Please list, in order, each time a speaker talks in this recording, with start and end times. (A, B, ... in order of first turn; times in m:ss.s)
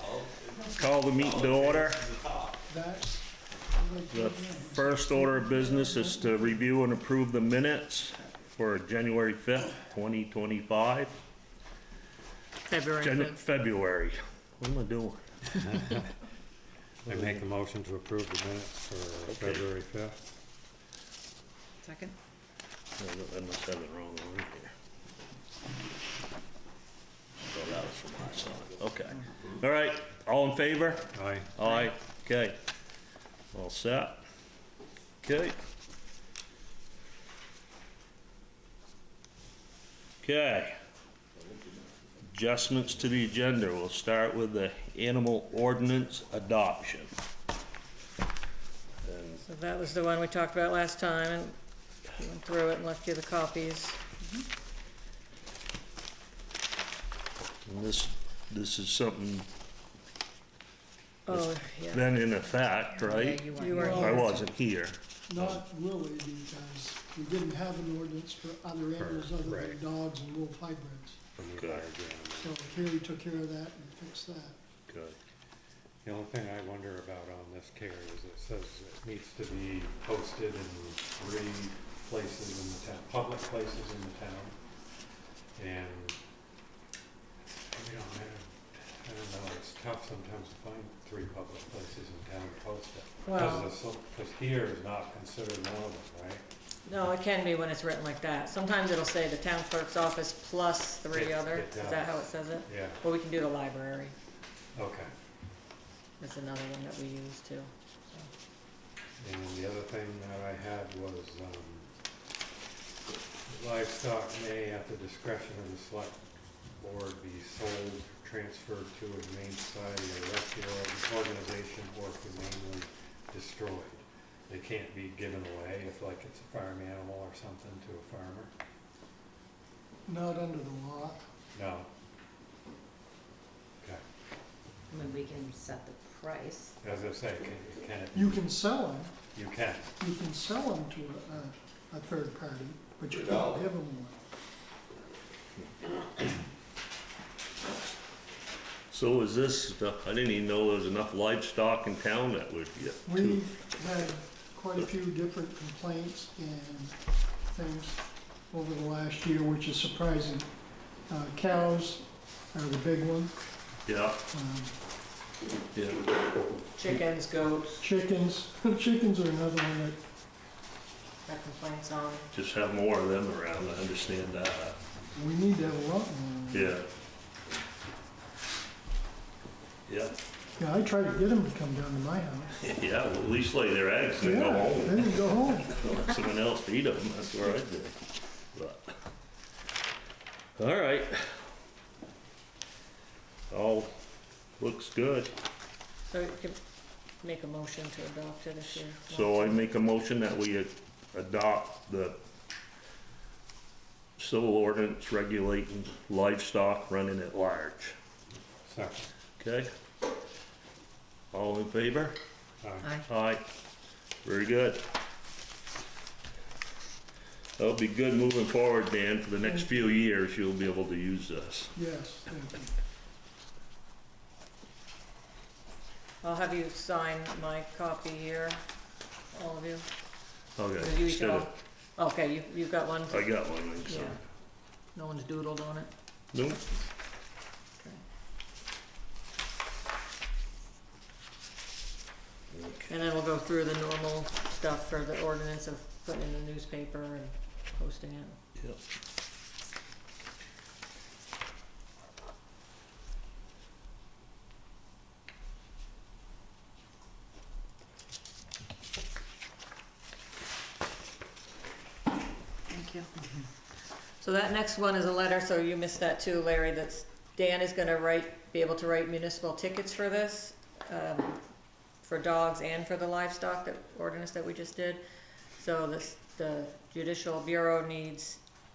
0:00.7-0:02.1 A
0:02.7-0:06.6 B
0:04.1-0:11.2 A
0:12.7-0:13.4 C
0:13.0-0:15.2 A
0:17.0-0:20.2 D
0:19.3-0:19.7 A
0:21.8-0:22.2 E
0:23.0-0:24.7 A
0:27.4-0:32.6 A
0:31.1-0:31.5 D
0:33.5-0:34.2 A
0:35.2-0:35.6 A
0:40.2-0:40.8 A
0:42.3-0:47.1 A
0:49.0-0:49.4 A
0:49.4-0:51.6 C
0:52.2-0:54.0 C
0:57.7-0:59.5 A
1:01.3-1:02.1 C
1:01.3-1:05.6 A
1:03.0-1:04.3 E
1:03.5-1:04.4 C
1:03.6-1:04.4 B
1:05.3-1:11.2 B
1:09.0-1:09.8 D
1:11.3-1:12.6 D
1:11.6-1:11.8 A
1:12.3-1:14.6 B
1:14.9-1:15.2 A
1:16.0-1:24.6 D
1:25.6-1:26.2 D
1:27.7-1:36.4 D
1:33.2-1:33.7 C
1:36.9-1:44.1 C
1:41.1-1:43.0 D
1:44.8-1:45.1 D
1:46.2-1:48.3 C
1:49.2-1:51.9 D
1:53.5-1:56.2 D
1:56.8-2:08.5 D
2:10.1-2:11.3 B
2:11.5-2:11.9 D
2:14.9-2:16.8 E
2:16.8-2:18.5 D
2:18.1-2:19.2 B
2:19.3-2:20.0 D
2:20.0-2:24.2 B
2:28.9-2:33.4 A
2:33.0-2:37.0 B
2:37.5-2:40.5 B
2:41.1-2:43.3 B
2:43.9-2:44.2 A
2:44.3-2:44.7 B
2:45.8-2:46.0 A
2:46.8-2:47.8 C
2:47.8-2:50.0 B
2:51.2-2:52.3 C
2:52.3-2:54.8 A
2:55.2-2:56.8 B
2:56.5-2:56.9 A
2:59.9-3:00.2 A
3:00.6-3:02.6 B
3:02.6-3:08.0 A
3:04.2-3:05.8 B
3:08.5-3:08.9 A
3:10.6-3:11.4 A
3:13.5-3:13.9 A
3:14.6-3:15.3 A
3:16.1-3:16.6 C
3:17.2-3:19.7 C
3:19.1-3:22.2 A
3:24.2-3:28.0 A
3:28.6-3:29.1 D
3:29.4-3:29.7 A
3:31.3-3:32.2 A
3:32.6-3:32.9 D
3:33.1-3:33.4 A
3:34.2-3:34.8 A
3:37.6-3:41.7 A
3:41.8-3:42.7 B
3:46.2-3:48.6 C
3:49.3-3:49.9 C
3:50.6-3:51.5 A
3:50.8-3:54.2 C
3:53.1-3:54.2 A
3:54.9-3:55.9 C
3:56.3-3:56.6 A
4:02.5-4:02.9 A
4:02.9-4:08.4 C
4:22.7-4:23.1 C
4:24.2-4:31.4 C
4:32.0-4:35.0 C
4:35.6-4:38.4 C